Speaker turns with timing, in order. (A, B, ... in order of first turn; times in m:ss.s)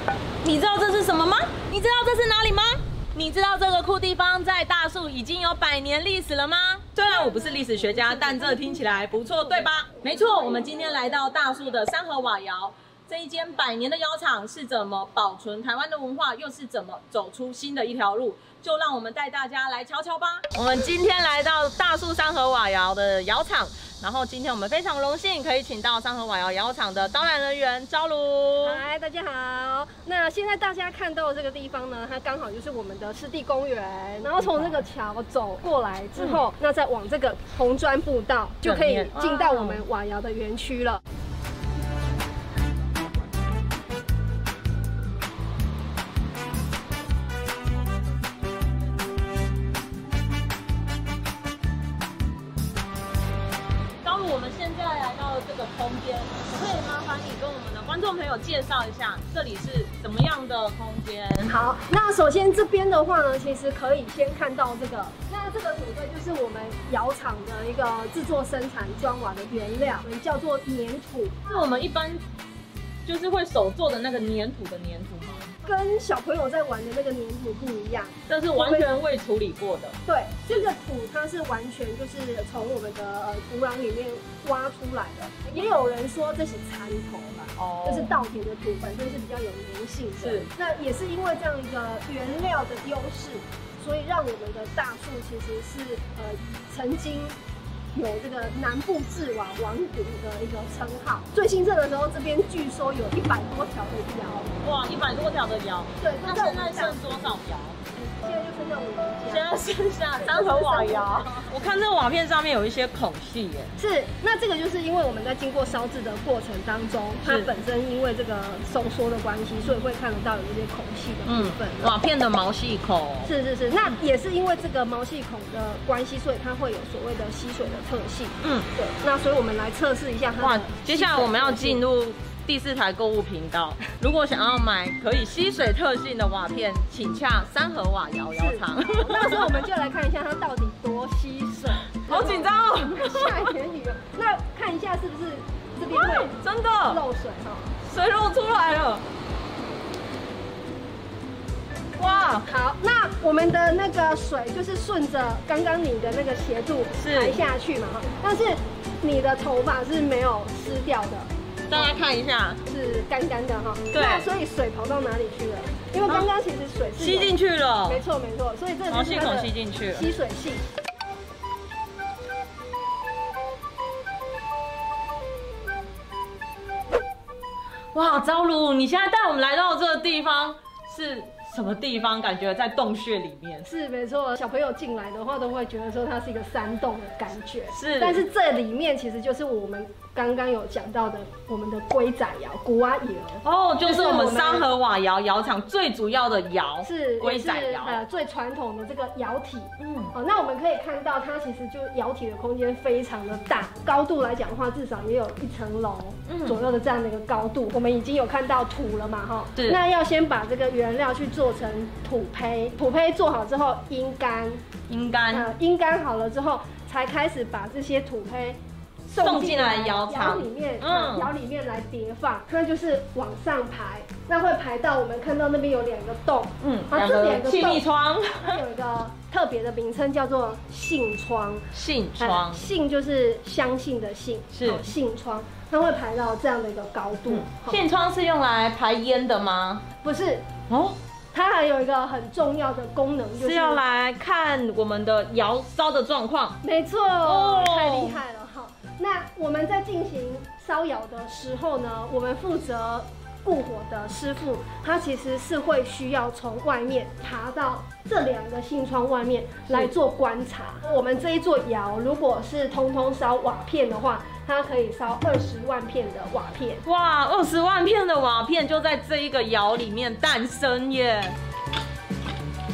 0:00.4-0:28.8 A
0:07.1-0:08.8 B
0:28.6-0:41.0 B
0:34.4-0:34.8 A
0:36.2-0:36.4 A
0:38.6-0:39.8 A
0:54.0-1:01.6 A
1:01.5-1:11.4 B
1:11.5-1:12.2 A
1:13.0-1:15.5 A
1:15.6-1:18.9 B
1:18.3-1:20.7 A
1:20.1-1:37.4 B
1:27.6-1:28.2 A
1:30.2-1:30.5 A
1:37.9-1:44.5 B
1:44.6-1:47.8 A
1:46.0-1:47.4 B
1:48.0-1:49.5 B
1:49.3-1:53.7 A
1:50.2-1:51.2 B
1:53.8-2:01.9 B
1:57.2-1:57.5 A
2:01.3-2:03.3 A
2:03.3-2:11.8 B
2:08.4-2:08.7 A
2:10.4-2:19.6 A
2:18.4-2:26.4 B
2:22.0-2:23.5 A
2:25.8-2:27.0 A
2:26.9-2:27.7 B
2:27.8-2:29.0 A
2:32.0-2:32.5 A
2:32.5-2:41.9 B
2:37.0-2:37.4 A
2:41.7-2:42.6 A
2:42.7-2:50.6 B
2:43.9-2:44.3 A
2:47.0-2:48.0 A
2:48.9-2:50.1 A
2:57.9-3:03.7 A
3:03.7-3:14.7 B
3:07.7-3:08.2 A
3:13.4-3:18.0 A
3:16.8-3:34.6 B
3:19.8-3:20.1 A
3:26.3-3:26.6 A
3:29.6-3:29.8 A
3:34.9-3:35.5 A
3:35.3-3:47.9 B
3:39.2-3:41.3 A
3:46.6-3:48.6 A
3:48.4-3:51.7 B
3:51.7-3:52.7 A
3:52.2-3:57.8 B
3:54.5-3:54.9 A
3:57.3-3:59.8 A
4:00.0-4:00.5 B
4:00.7-4:01.0 A
4:01.3-4:03.8 B
4:03.4-4:06.6 A
4:06.6-4:26.8 B
4:07.2-4:08.2 A
4:26.8-4:31.4 A